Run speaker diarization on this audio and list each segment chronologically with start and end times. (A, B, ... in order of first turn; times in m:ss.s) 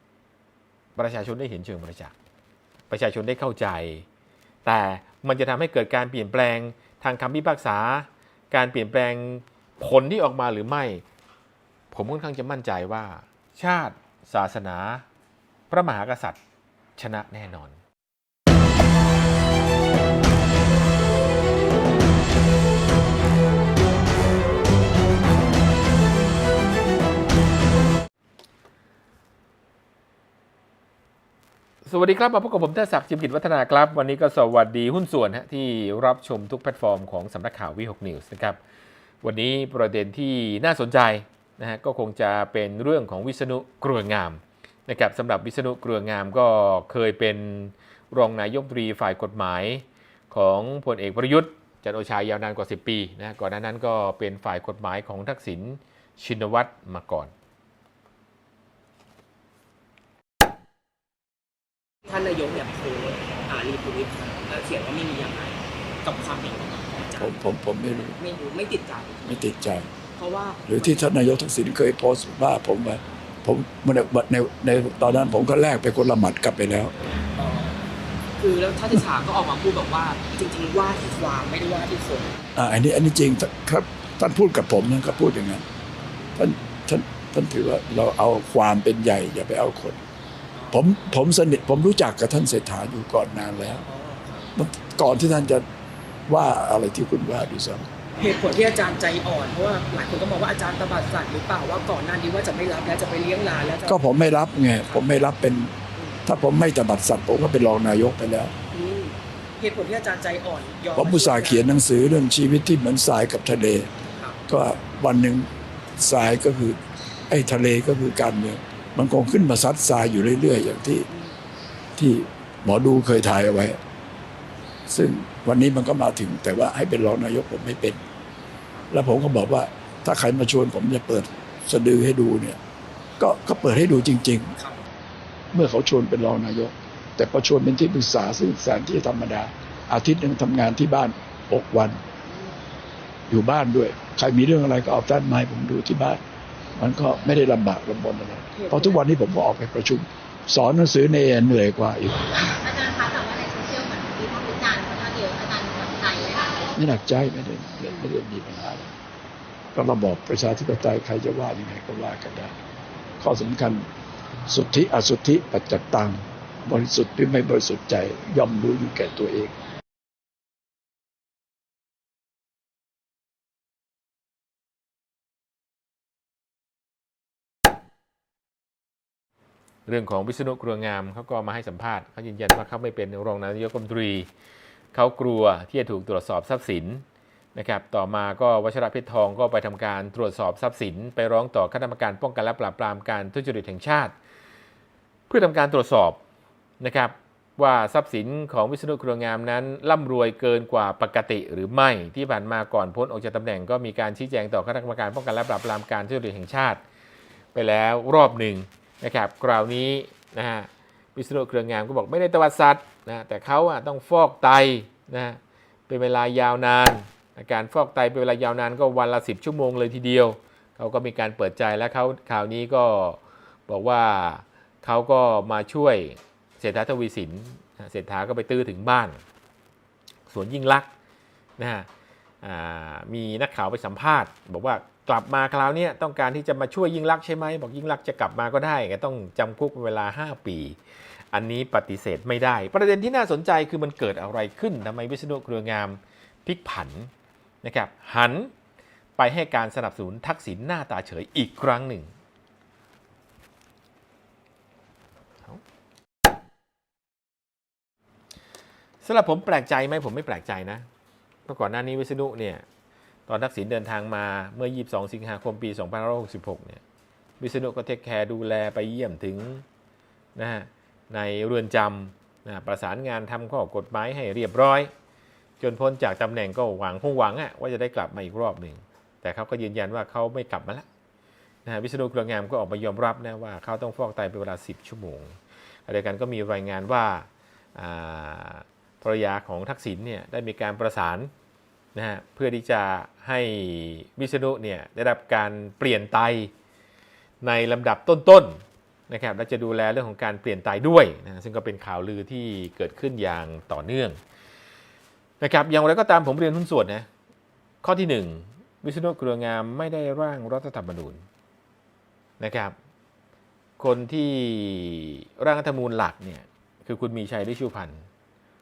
0:01.0-0:02.1 A
0:02.9-0:04.0 A
0:04.6-0:11.0 A
0:11.9-0:15.0 A
0:15.7-0:16.4 A
0:17.0-0:17.8 A
0:31.8-0:38.6 A
0:39.2-0:57.3 A
1:02.0-1:07.3 B
1:07.2-1:08.2 C
1:08.2-1:09.2 B
1:09.2-1:09.9 C
1:10.2-1:11.0 B
1:10.7-1:16.9 C
1:17.4-1:17.8 B
1:18.4-1:22.4 B
1:22.6-1:25.6 C
1:26.4-1:30.0 C
1:30.7-1:33.8 C
1:33.9-1:34.5 B
1:34.5-1:35.6 C
1:36.3-1:37.9 C
1:38.2-1:44.0 B
1:43.8-1:45.7 C
1:46.2-1:48.5 C
1:48.7-1:51.7 B
1:51.0-1:53.9 C
1:54.5-1:56.8 C
1:57.3-2:01.1 C
2:02.0-2:03.8 C
2:04.9-2:08.0 C
2:08.9-2:12.6 C
2:13.2-2:14.5 C
2:15.5-2:22.0 C
2:23.3-2:26.2 C
2:26.8-2:32.4 C
2:28.6-2:28.9 B
2:32.5-2:36.6 D
2:36.8-2:38.9 C
2:39.7-2:42.5 C
2:43.2-2:43.8 C
2:44.5-2:49.5 C
2:59.9-3:04.3 A
3:04.9-3:07.0 A
3:07.5-3:14.1 A
3:15.3-3:16.2 A
3:16.8-3:26.8 A
3:27.5-3:49.2 A
3:50.3-3:50.9 A
3:51.6-3:51.9 A
3:52.4-4:00.8 A
4:01.3-4:07.1 A
4:07.6-4:08.5 A
4:09.2-4:12.1 A
4:19.0-4:20.8 A
4:21.5-4:22.6 A
4:23.3-4:26.8 A
4:27.4-4:29.6 A
4:30.4-4:34.9 A
4:35.6-4:40.8 A
4:41.6-4:45.4 A
4:45.9-4:51.3 A
4:51.9-4:56.5 A
4:57.4-5:04.2 A
5:05.4-5:07.0 A
5:07.8-5:11.2 A
5:12.4-5:12.7 A
5:13.8-5:18.0 A